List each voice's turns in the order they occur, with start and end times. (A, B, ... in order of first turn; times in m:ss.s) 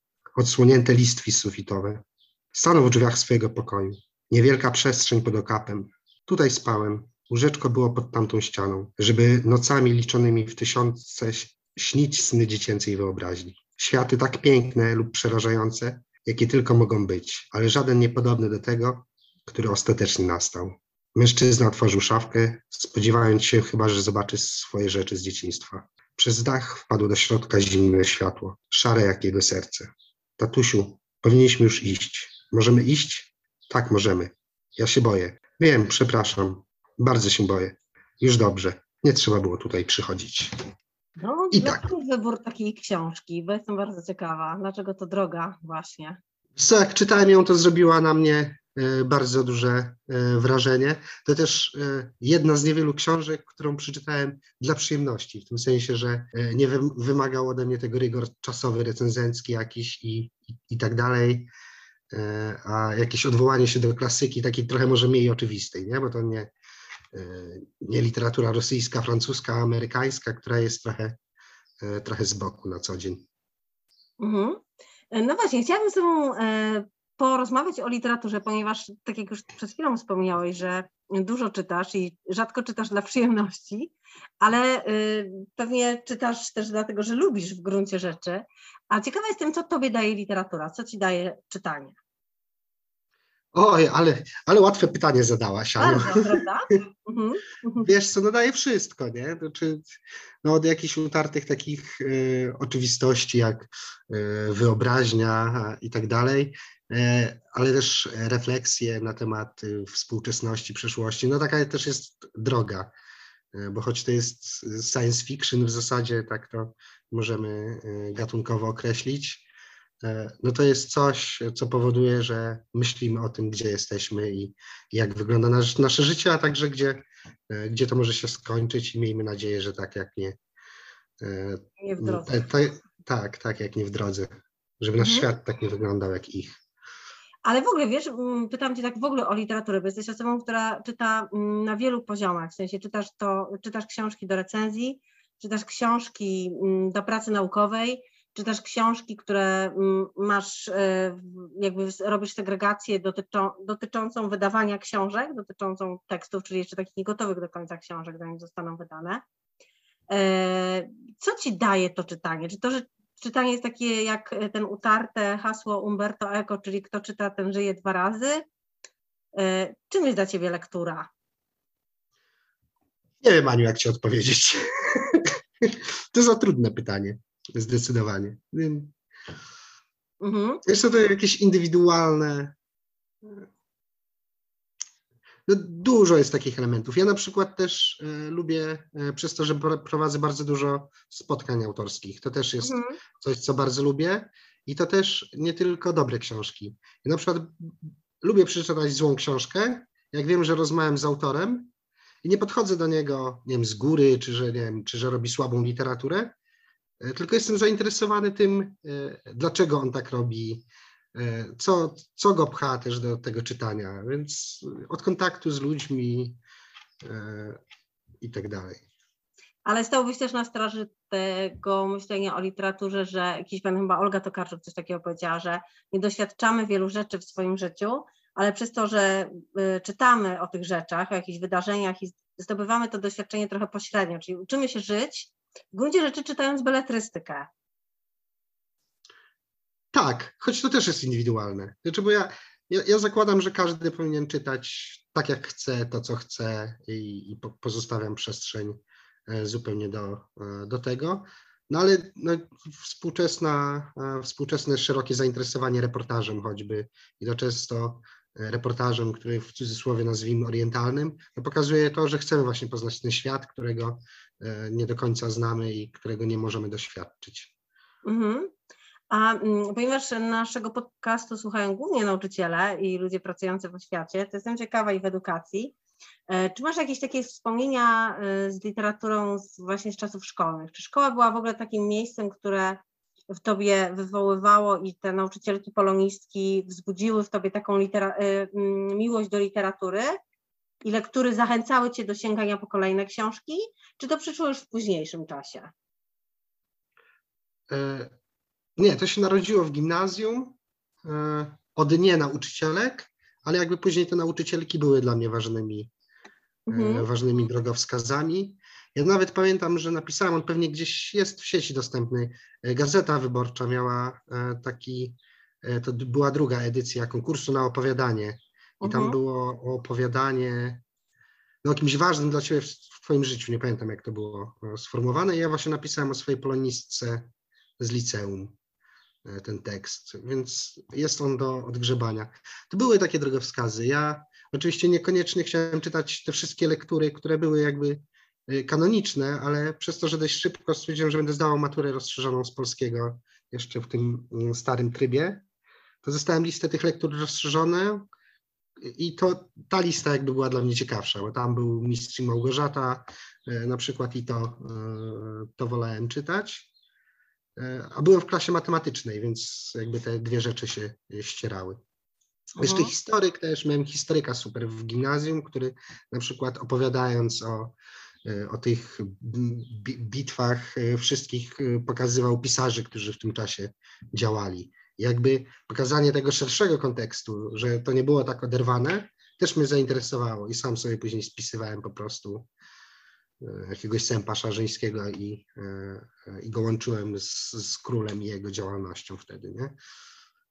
0:00.4-0:40.5 A
0:41.2-0:46.2 B
0:41.5-0:41.8 A
0:46.6-1:01.5 A
1:02.1-1:06.5 A
1:07.1-1:11.2 A
1:11.8-1:13.2 A
1:14.2-1:32.0 B
1:33.5-1:36.4 A
1:35.8-1:37.9 B
1:37.8-1:39.9 A
1:40.4-1:52.9 A
1:53.5-1:59.4 A
2:00.0-2:10.4 A
2:11.2-2:16.6 A
2:11.8-2:12.4 B
2:15.0-2:15.3 B
2:17.4-2:39.2 B
2:40.1-2:48.4 B
2:49.3-2:51.1 B
2:53.2-2:58.9 A
3:00.2-3:00.6 B
3:00.6-3:02.5 A
3:05.5-3:21.7 A
3:12.6-3:13.0 B
3:22.2-3:26.3 A
3:27.0-3:36.4 A
3:37.0-3:37.6 A
3:38.2-3:38.8 A
3:39.6-3:57.5 B
3:59.9-4:27.5 A
4:28.0-4:28.5 B
4:29.1-4:35.7 B
4:36.3-4:50.2 B
4:50.8-4:55.7 B
4:57.7-4:58.1 A
4:58.8-5:05.9 A
5:06.7-5:07.1 B
5:06.7-5:20.8 A
5:18.8-5:19.2 B
5:21.6-5:28.6 A
5:29.2-5:45.4 A
5:46.0-5:48.0 A
5:48.8-5:56.7 A
5:57.6-6:01.8 A
6:02.6-6:02.9 B
6:02.6-6:07.7 A
6:08.2-6:22.5 A
6:23.4-6:29.8 A